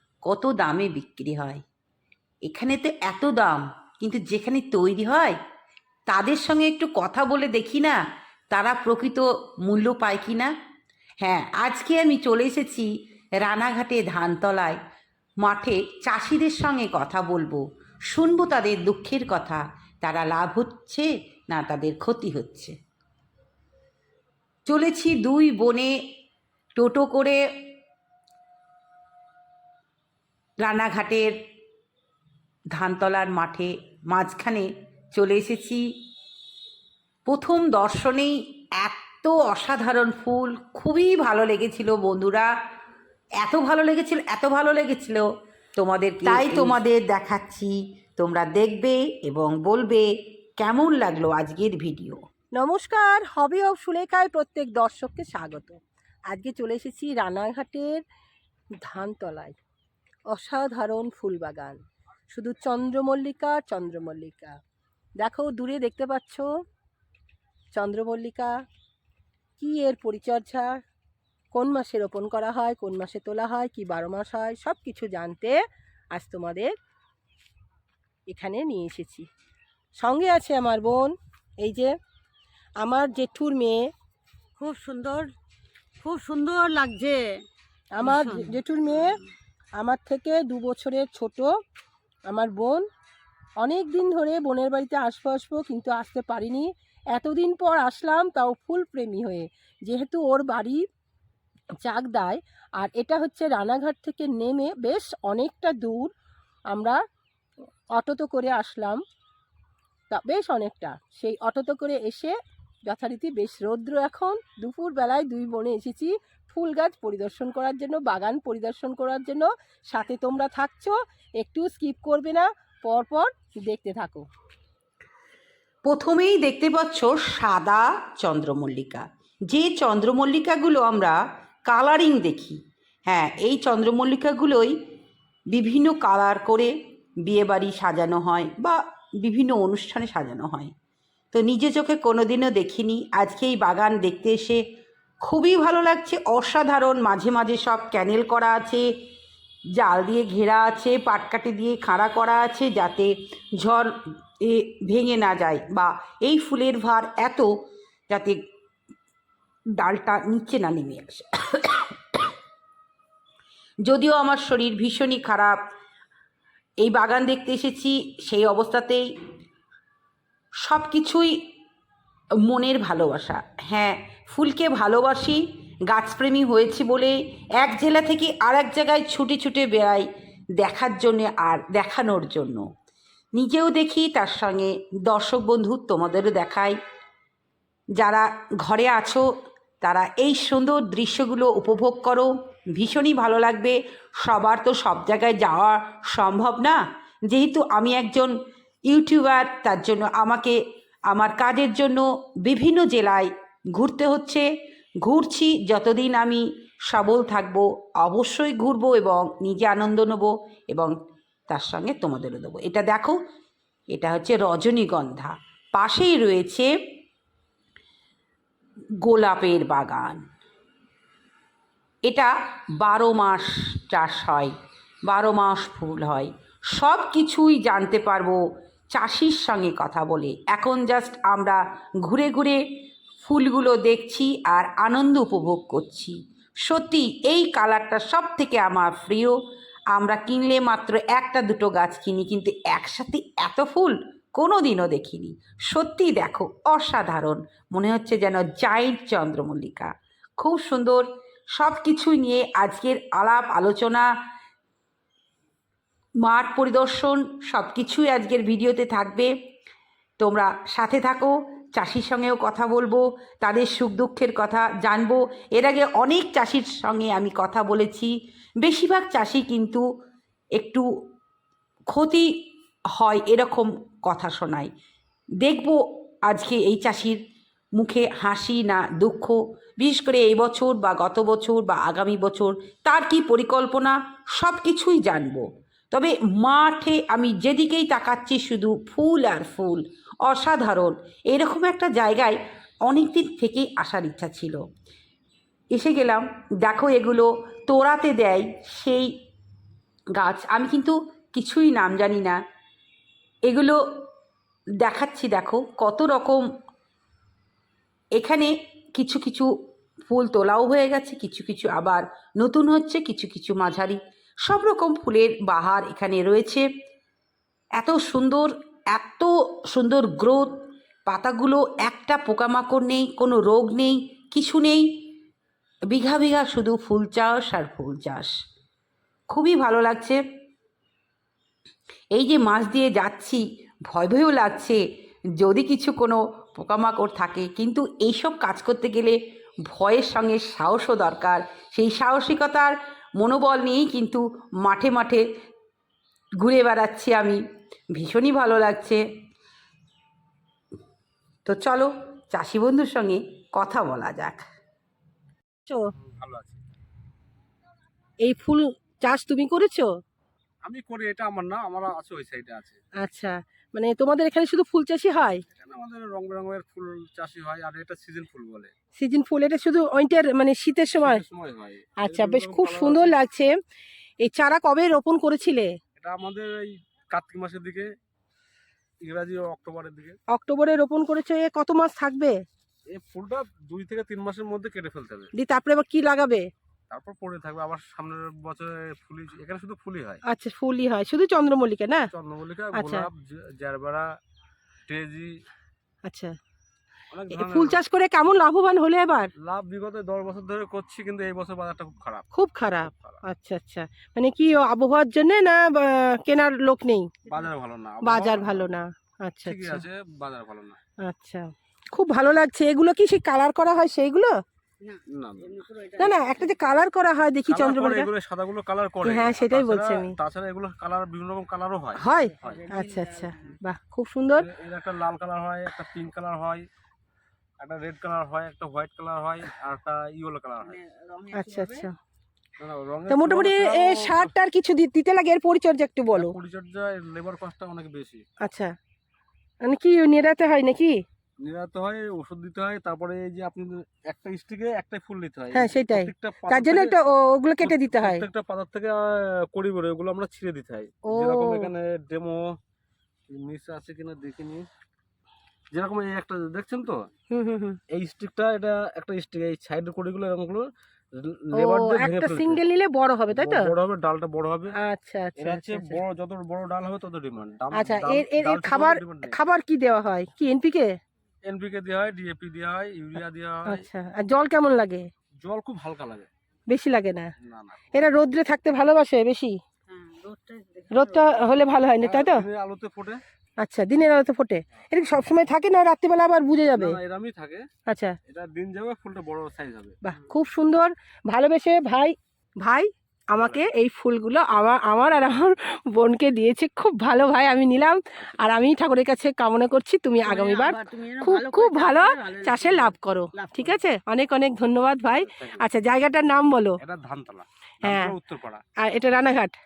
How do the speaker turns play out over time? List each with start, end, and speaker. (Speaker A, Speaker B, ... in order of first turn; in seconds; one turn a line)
Speaker A: 0.2-1.6
Speaker A: 2.5-5.4
Speaker A: 6.1-8.0
Speaker A: 8.5-10.5
Speaker A: 11.2-12.9
Speaker A: 13.4-14.8
Speaker A: 15.4-22.7
Speaker A: 24.6-25.9
Speaker A: 26.8-27.4
Speaker A: 30.6-31.4
Speaker A: 32.7-35.8
Speaker A: 37.2-42.5
Speaker A: 43.4-52.2
Speaker B: 46.2-46.7
Speaker B: 52.6-58.0
Speaker B: 58.8-59.6
Speaker B: 60.3-64.6
Speaker B: 65.2-66.5
Speaker B: 67.7-68.5
Speaker B: 69.6-70.7
Speaker B: 71.5-75.6
Speaker B: 76.1-76.7
Speaker B: 78.3-79.3
Speaker B: 80.0-81.9
Speaker B: 82.8-83.9
Speaker C: 84.6-85.3
Speaker C: 86.0-87.4
Speaker B: 88.0-89.2
Speaker C: 88.0-89.2
Speaker B: 89.8-91.5
Speaker B: 92.3-92.9
Speaker B: 93.6-100.8
Speaker B: 101.8-106.1
Speaker B: 106.7-107.0
Speaker B: 108.0-109.0
Speaker B: 110.1-112.3
Speaker B: 112.9-124.2
Speaker A: 125.8-134.7
Speaker A: 135.5-136.7
Speaker A: 137.2-140.7
Speaker A: 141.3-144.6
Speaker A: 145.2-148.9
Speaker A: 149.8-157.5
Speaker A: 158.1-158.4
Speaker A: 159.8-162.3
Speaker A: 163.8-165.6
Speaker A: 166.8-169.1
Speaker A: 170.6-171.4
Speaker A: 172.4-180.1
Speaker A: 180.6-182.7
Speaker A: 183.3-186.8
Speaker A: 187.9-189.2
Speaker A: 189.8-198.3
Speaker A: 198.9-200.6
Speaker A: 201.1-204.5
Speaker A: 205.0-210.9
Speaker A: 211.5-213.2
Speaker A: 213.9-216.7
Speaker A: 219.0-220.2
Speaker A: 222.1-224.5
Speaker A: 225.1-228.4
Speaker A: 228.9-232.6
Speaker A: 233.2-239.4
Speaker A: 239.9-251.1
Speaker A: 251.6-254.1
Speaker A: 256.2-259.3
Speaker A: 260.2-268.1
Speaker A: 268.6-269.8
Speaker A: 270.6-270.9
Speaker A: 271.9-272.3
Speaker A: 272.9-274.7
Speaker A: 275.4-277.2
Speaker A: 277.8-294.6
Speaker A: 295.7-299.1
Speaker A: 300.1-302.4
Speaker A: 303.4-304.1
Speaker A: 304.8-306.4
Speaker A: 308.1-309.5
Speaker A: 310.1-316.6
Speaker A: 317.8-324.8
Speaker A: 325.9-328.3
Speaker A: 329.3-330.2
Speaker A: 332.1-334.8
Speaker A: 335.4-339.2
Speaker A: 339.7-345.2
Speaker A: 346.4-347.4
Speaker A: 347.9-349.0
Speaker A: 351.4-354.4
Speaker B: 355.6-355.9
Speaker D: 355.9-356.6
Speaker B: 358.2-359.9
Speaker D: 360.6-362.8
Speaker B: 363.0-365.4
Speaker D: 365.5-368.7
Speaker B: 369.0-371.2
Speaker D: 370.9-373.1
Speaker B: 372.0-373.5
Speaker B: 374.2-375.8
Speaker D: 376.0-377.9
Speaker D: 379.0-380.2
Speaker B: 380.3-382.4
Speaker D: 382.9-385.3
Speaker B: 385.3-386.5
Speaker D: 386.9-390.2
Speaker B: 390.2-392.1
Speaker D: 392.1-394.1
Speaker B: 392.7-393.1
Speaker D: 394.9-395.4
Speaker B: 396.1-396.4
Speaker D: 397.1-397.8
Speaker B: 397.3-399.3
Speaker D: 399.4-402.3
Speaker B: 402.3-407.1
Speaker D: 402.8-403.2
Speaker D: 407.2-408.7
Speaker B: 408.0-409.8
Speaker D: 409.4-410.8
Speaker B: 411.0-414.4
Speaker C: 414.8-416.7
Speaker D: 415.1-415.6
Speaker B: 416.0-418.1
Speaker D: 417.5-422.6
Speaker B: 419.0-420.1
Speaker B: 422.0-424.5
Speaker C: 422.2-423.6
Speaker D: 424.3-426.6
Speaker D: 427.6-430.8
Speaker C: 430.6-431.9
Speaker B: 431.3-431.9
Speaker D: 432.6-434.3
Speaker B: 433.1-436.3
Speaker D: 436.1-438.2
Speaker B: 438.4-438.7
Speaker B: 439.6-441.0
Speaker D: 441.4-446.9
Speaker B: 445.5-448.2
Speaker D: 447.6-452.6
Speaker B: 451.1-451.7
Speaker D: 453.3-454.6
Speaker D: 455.7-457.1
Speaker B: 457.3-457.8
Speaker D: 457.9-460.6
Speaker D: 461.2-462.6
Speaker B: 461.5-463.7
Speaker D: 463.3-464.7
Speaker B: 464.8-466.0
Speaker D: 465.4-469.4
Speaker B: 467.7-471.0
Speaker D: 471.4-473.8
Speaker B: 473.7-475.1
Speaker D: 475.4-476.3
Speaker B: 476.7-477.3
Speaker D: 477.4-478.1
Speaker B: 477.9-479.6
Speaker C: 479.9-481.6
Speaker B: 480.9-482.4
Speaker D: 482.0-483.2
Speaker B: 483.6-487.0
Speaker D: 486.7-487.6
Speaker B: 487.9-488.1
Speaker D: 488.3-490.0
Speaker B: 490.0-506.8
Speaker D: 493.4-493.6
Speaker D: 498.2-498.6
Speaker C: 500.2-503.8
Speaker D: 505.2-505.6
Speaker D: 506.8-508.6
Speaker B: 507.8-508.1
Speaker B: 508.8-509.6